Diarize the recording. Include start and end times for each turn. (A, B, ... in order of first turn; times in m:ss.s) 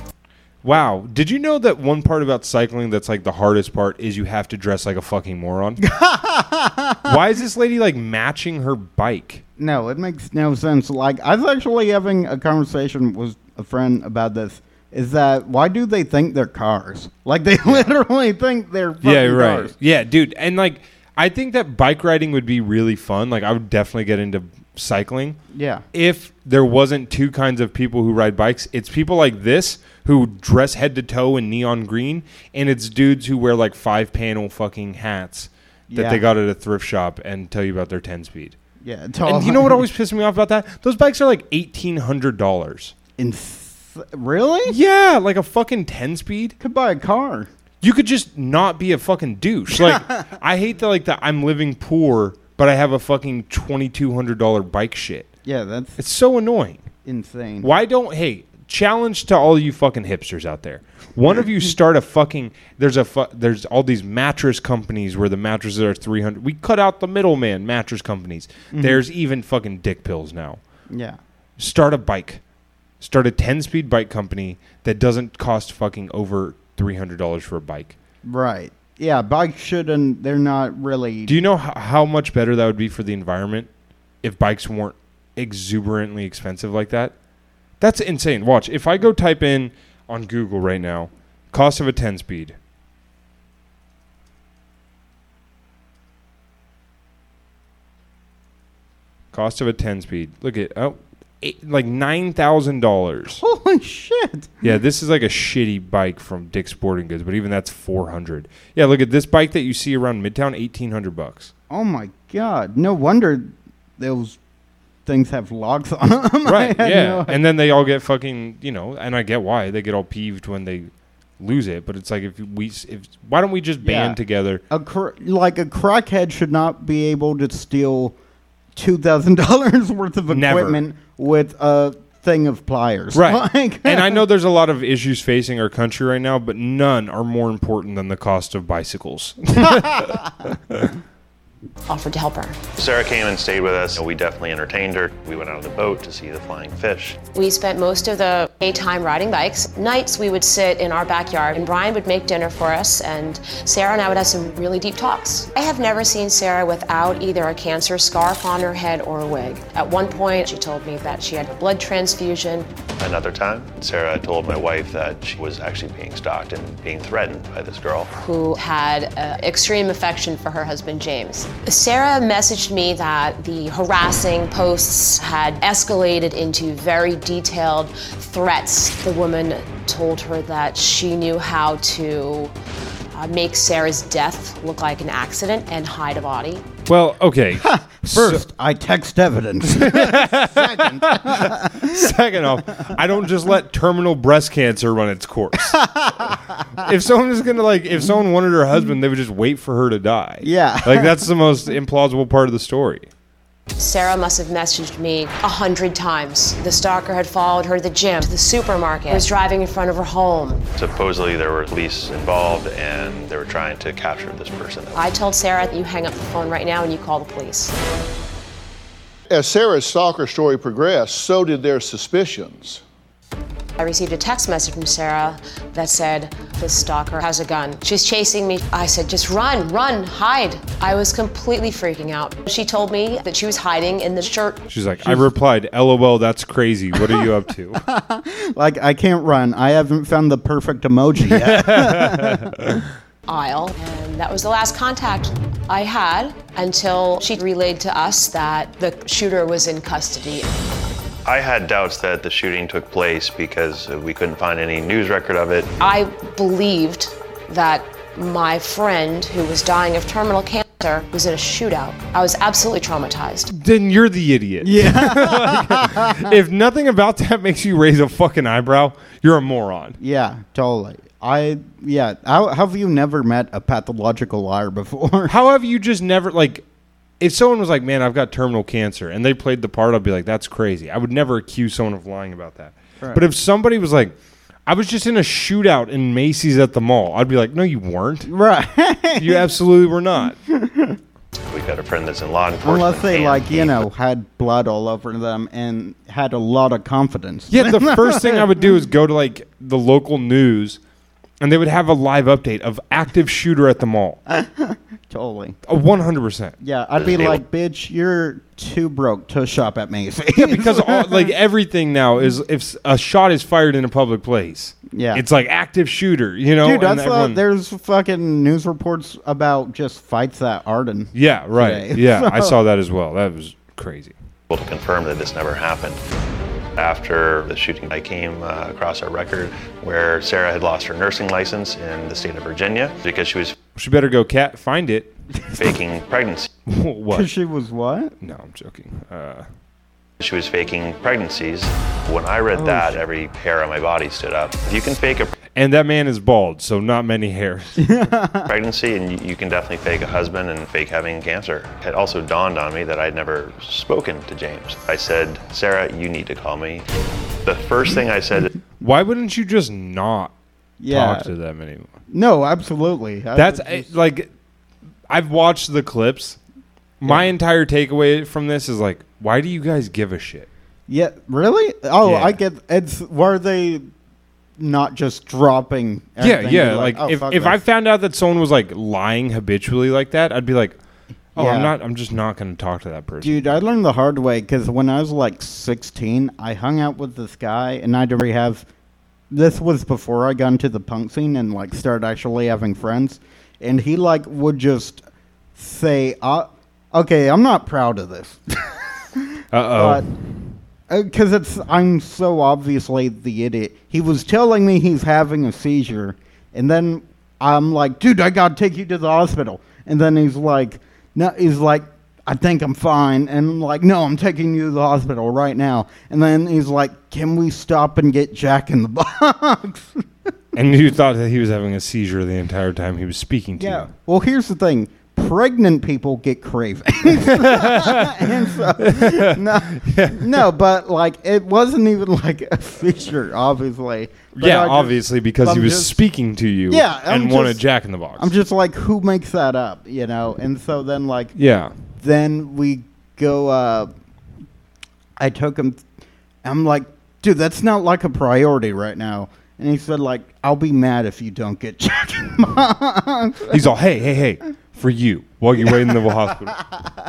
0:00.6-0:05.8 A
0:05.8-0:07.1 B
0:07.1-0:09.4 A
0:09.6-0:19.7 B
0:17.6-0:17.9 A
0:19.0-0:25.4 A
0:25.5-0:25.8 B
0:25.9-0:38.6 A
0:35.9-0:36.2 B
0:38.8-0:39.8 B
0:39.2-0:43.0 A
0:43.2-0:44.8 B
0:44.7-0:46.6 A
0:46.6-0:47.5 B
0:47.8-0:55.3 A
0:55.5-0:56.0 B
0:56.0-0:56.9 A
0:57.0-0:57.7 B
0:57.6-1:10.6 A
1:08.7-1:09.0 B
1:10.9-1:11.2 B
1:11.6-1:12.4 A
1:13.0-1:18.0 A
1:18.2-1:21.3 B
1:21.3-1:23.7 A
1:24.2-1:27.1 A
1:27.8-1:32.6 A
1:39.3-1:43.4 A
1:43.4-1:44.7 B
1:44.6-1:51.5 A
1:51.7-1:54.4 B
1:55.1-1:57.4 B
1:56.4-2:04.6 A
2:03.8-2:04.2 B
2:04.7-2:08.2 B
2:08.8-2:14.2 B
2:10.3-2:10.8 A
2:13.1-2:20.9 A
2:21.9-2:22.6 C
2:22.8-2:27.2 D
2:27.3-2:42.7 C
2:43.0-2:48.1 D
2:48.2-3:02.5 C
3:03.1-3:06.7 C
3:06.9-3:08.4 A
3:07.6-3:12.1 B
3:09.7-3:23.1 A
3:15.6-3:16.8 B
3:20.4-3:21.3 B
3:23.8-3:30.6 C
3:30.8-3:35.1 D
3:34.9-3:37.7 C
3:39.3-3:42.8 E
3:43.8-3:54.6 C
3:54.7-3:57.8 A
3:57.8-4:02.7 B
4:01.3-4:02.8 A
4:03.3-4:10.5 C
4:11.2-4:15.7 D
4:15.8-4:23.5 C
4:23.5-4:30.0 A
4:24.6-4:26.3 B
4:30.0-4:35.3 B
4:35.3-4:36.6 A
4:37.2-4:44.2 A
4:44.7-4:48.3 A
4:48.3-4:49.5 B
4:49.2-4:50.4 A
4:50.5-4:51.0 B
4:51.5-4:53.8 D
4:52.6-4:58.5 B
4:57.5-5:00.8 A
5:01.4-5:04.2 A
5:04.3-5:05.6 B
5:05.7-5:06.6 A
5:06.6-5:11.3 B
5:07.0-5:07.4 D
5:10.4-5:17.4 A
5:14.9-5:15.2 B
5:16.6-5:22.6 B
5:21.1-5:24.2 A
5:24.5-5:26.0 D
5:26.8-5:33.6 D
5:33.8-5:35.1 A
5:35.6-5:36.5 D
5:36.7-5:37.3 A
5:37.1-5:38.2 B
5:38.2-5:39.5 A
5:40.2-5:45.4 D
5:42.5-5:43.0 B
5:45.5-5:47.9 A
5:47.8-5:48.5 B
5:48.5-5:56.9 D
5:57.4-5:58.5 D
5:58.8-6:00.3 A
6:00.8-6:01.3 B
6:00.9-6:01.9 A
6:02.1-6:03.9 B
6:03.4-6:04.3 A
6:05.1-6:06.4 A
6:07.0-6:10.5 A
6:10.9-6:13.9 B
6:12.0-6:12.4 A
6:14.6-6:17.6 B
6:16.2-6:20.8 A
6:21.4-6:23.6 A
6:21.4-6:21.7 B
6:23.2-6:28.6 B
6:29.3-6:35.0 B
6:35.6-6:40.1 B
6:39.5-6:40.0 A
6:40.9-7:00.0 B
7:00.6-7:03.9 A
7:03.6-7:16.0 B
7:07.2-7:10.5 A
7:14.4-7:18.3 A
7:16.7-7:17.6 B
7:18.2-7:21.4 B
7:21.4-7:21.7 A
7:22.0-7:23.9 B
7:25.2-7:25.8 B
7:26.4-7:33.6 B
7:33.5-7:36.6 A